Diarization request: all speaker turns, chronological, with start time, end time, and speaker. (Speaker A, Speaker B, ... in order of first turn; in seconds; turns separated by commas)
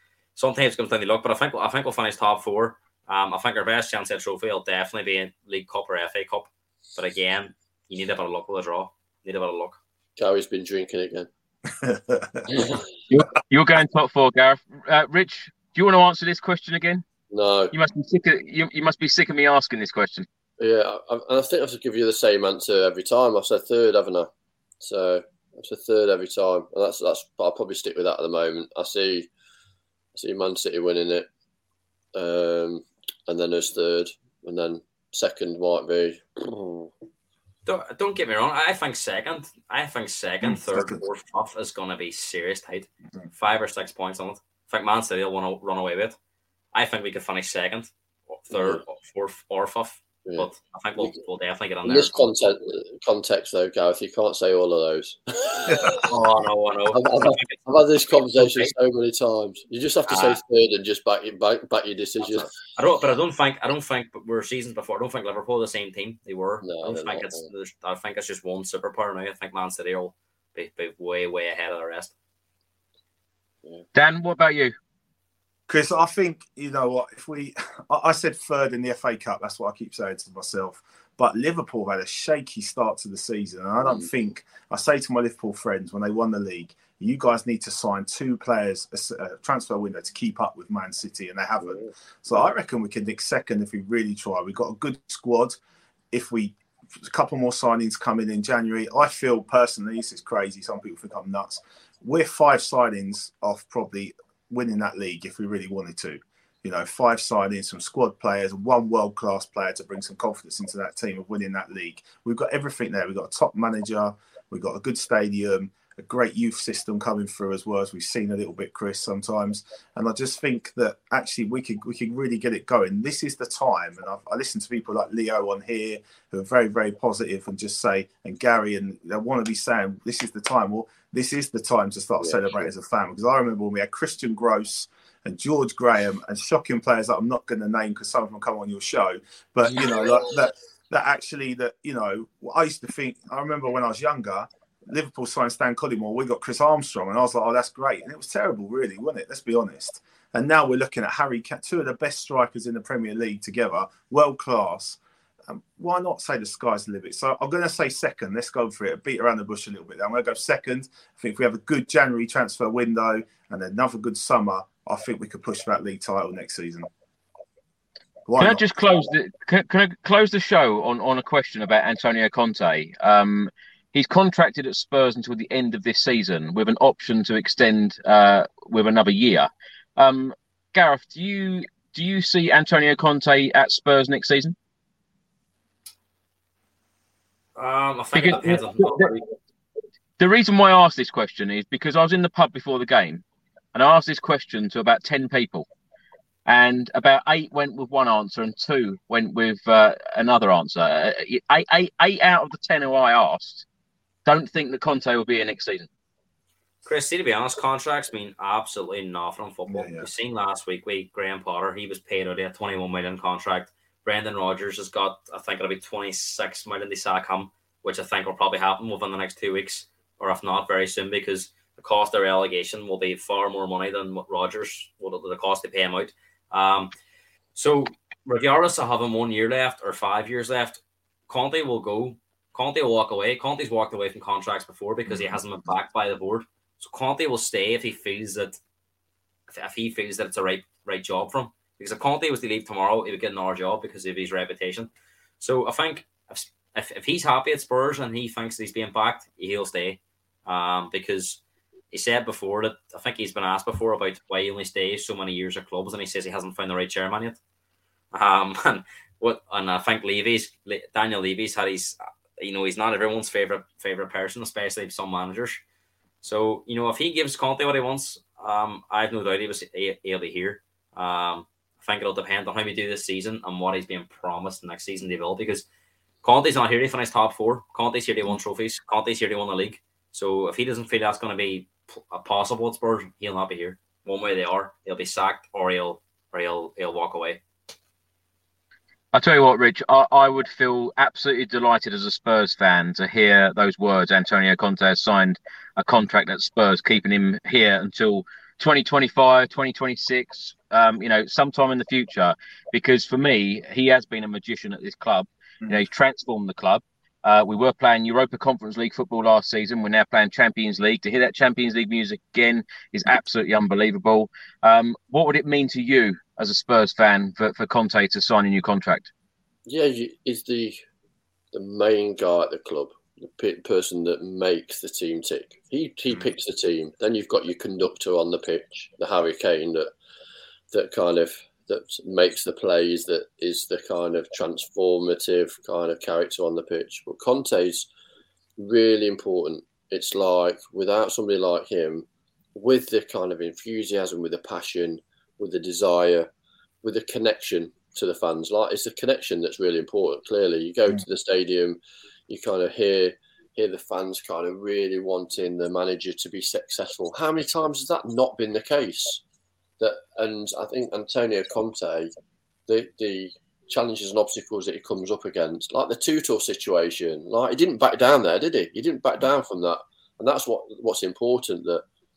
Speaker A: 0.4-9.8, Speaker B: 10.2-11.3, Speaker C: 11.8-12.5, Speaker B: 12.5-12.8, Speaker D: 13.1-17.0, Speaker B: 17.3-17.7, Speaker D: 17.7-20.3, Speaker B: 20.6-24.3, Speaker B: 24.8-29.3, Speaker B: 30.1-31.3, Speaker B: 32.1-36.9, Speaker A: 37.7-46.2, Speaker C: 40.4-41.0, Speaker A: 46.7-52.3, Speaker B: 48.5-48.8, Speaker B: 50.3-51.2, Speaker B: 51.9-56.1, Speaker C: 55.7-56.0, Speaker A: 56.0-57.6, Speaker B: 56.9-62.5, Speaker A: 58.4-58.7, Speaker A: 60.1-60.4, Speaker A: 62.4-72.1, Speaker B: 66.6-67.5, Speaker D: 74.0-74.8, Speaker C: 75.7-95.6, Speaker B: 83.8-84.1, Speaker B: 91.6-91.9, Speaker C: 96.1-166.9, Speaker B: 132.2-132.7, Speaker B: 139.7-140.0, Speaker C: 168.3-168.7, Speaker D: 168.4-184.6, Speaker A: 187.6-189.3, Speaker D: 188.2-189.1, Speaker D: 190.2-193.2, Speaker D: 193.7-195.7, Speaker D: 196.5-203.7, Speaker D: 204.3-205.9, Speaker A: 206.8-226.9, Speaker C: 209.7-210.1, Speaker A: 227.6-238.6, Speaker C: 235.1-235.4, Speaker A: 239.5-251.4, Speaker A: 251.9-257.4, Speaker A: 258.1-265.6, Speaker A: 266.2-275.6, Speaker A: 276.2-287.4, Speaker D: 289.1-319.1, Speaker B: 319.7-320.8, Speaker B: 321.5-329.9, Speaker B: 330.7-337.9, Speaker B: 338.6-346.3, Speaker B: 346.8-359.2, Speaker B: 359.8-362.1, Speaker B: 362.7-371.9